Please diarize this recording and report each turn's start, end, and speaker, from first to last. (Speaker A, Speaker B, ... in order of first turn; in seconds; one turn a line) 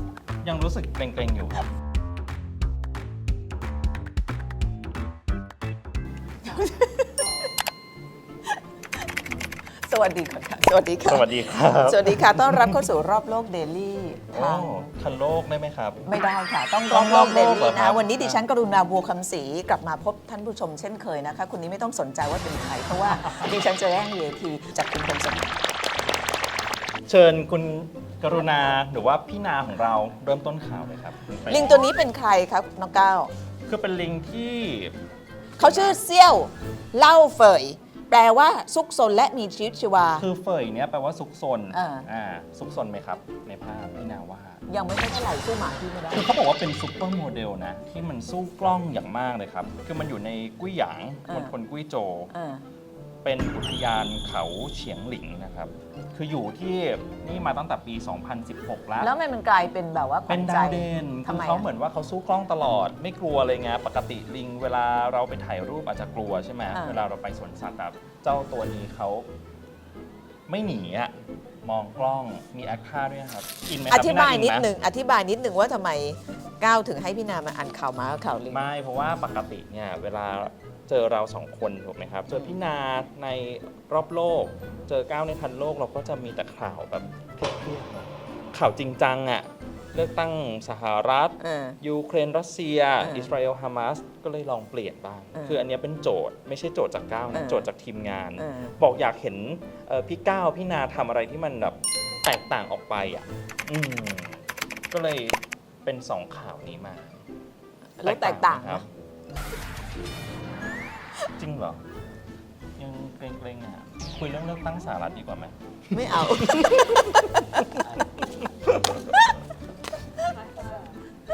Speaker A: 0.4-1.7
Speaker B: 6.4-7.5
Speaker B: 9.8-14.9
Speaker A: 11.1-12.9
Speaker A: 14.3-16.0
Speaker B: 16.1-25.6
Speaker A: 16.9-18.4
Speaker A: 27.1-31.9
Speaker B: 31.5-33.3
Speaker A: 33.7-35.0
Speaker A: 35.6-36.0
Speaker B: 35.6-40.2
Speaker A: 40.2-44.6
Speaker B: 41.7-42.1
Speaker B: 44.7-46.3
Speaker A: 46.1-52.3
Speaker B: 51.3-51.5
Speaker B: 52.3-52.6
Speaker A: 53.2-59.1
Speaker B: 59.0-61.7
Speaker A: 60.3-69.3
Speaker B: 66.7-67.0
Speaker A: 70.5-74.7
Speaker B: 73.9-78.6
Speaker A: 78.5-107.2
Speaker B: 91.4-91.8
Speaker B: 93.0-93.3
Speaker B: 95.3-95.6
Speaker B: 97.3-97.7
Speaker B: 98.4-98.8
Speaker B: 108.0-108.9
Speaker A: 108.0-108.9
Speaker A: 111.4-111.8
Speaker A: 112.8-119.0
Speaker B: 115.9-117.8
Speaker B: 119.0-119.3